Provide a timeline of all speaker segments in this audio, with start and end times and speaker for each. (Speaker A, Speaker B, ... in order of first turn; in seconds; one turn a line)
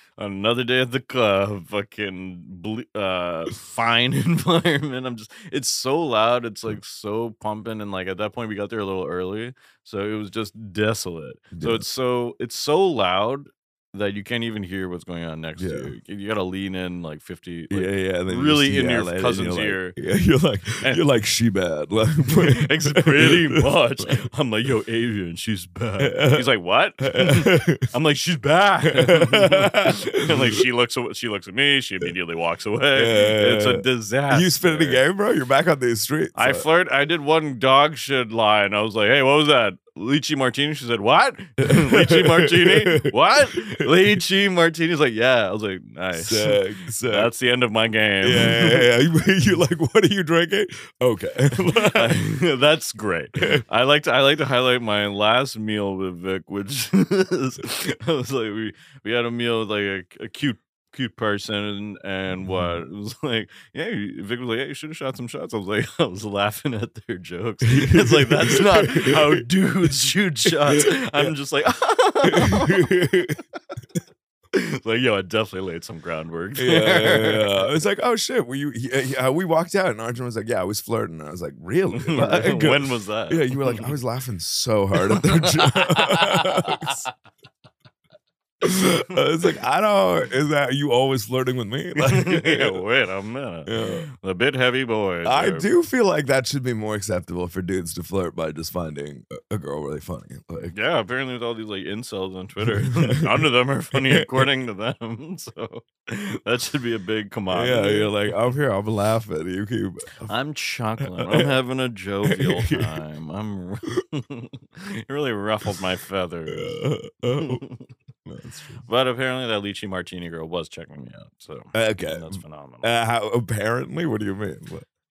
Speaker A: 0.2-20.0
Speaker B: 11.5-11.8
Speaker B: 15.6-15.9
Speaker B: 17.7-24.2
Speaker A: 22.2-35.0
Speaker B: 26.0-26.4
Speaker B: 27.0-27.9
Speaker B: 28.9-30.6
Speaker B: 32.9-36.6
Speaker A: 36.3-48.9
Speaker B: 41.6-44.2
Speaker B: 46.1-47.3
Speaker B: 48.2-52.2
Speaker A: 51.5-73.3
Speaker B: 67.7-69.4
Speaker B: 70.5-71.3
Speaker B: 72.3-73.4
Speaker A: 74.5-77.8
Speaker B: 76.6-87.0
Speaker A: 81.9-83.9
Speaker A: 85.0-87.0
Speaker B: 88.6-92.8
Speaker A: 92.0-95.7
Speaker B: 93.7-94.0
Speaker B: 95.2-100.7
Speaker A: 100.7-108.1
Speaker B: 102.7-104.4
Speaker B: 107.5-110.3
Speaker A: 110.2-116.8
Speaker B: 111.0-111.5
Speaker B: 112.3-112.9
Speaker B: 116.5-117.6
Speaker A: 117.3-117.9
Speaker B: 118.2-118.8
Speaker A: 118.8-122.9
Speaker B: 121.7-124.8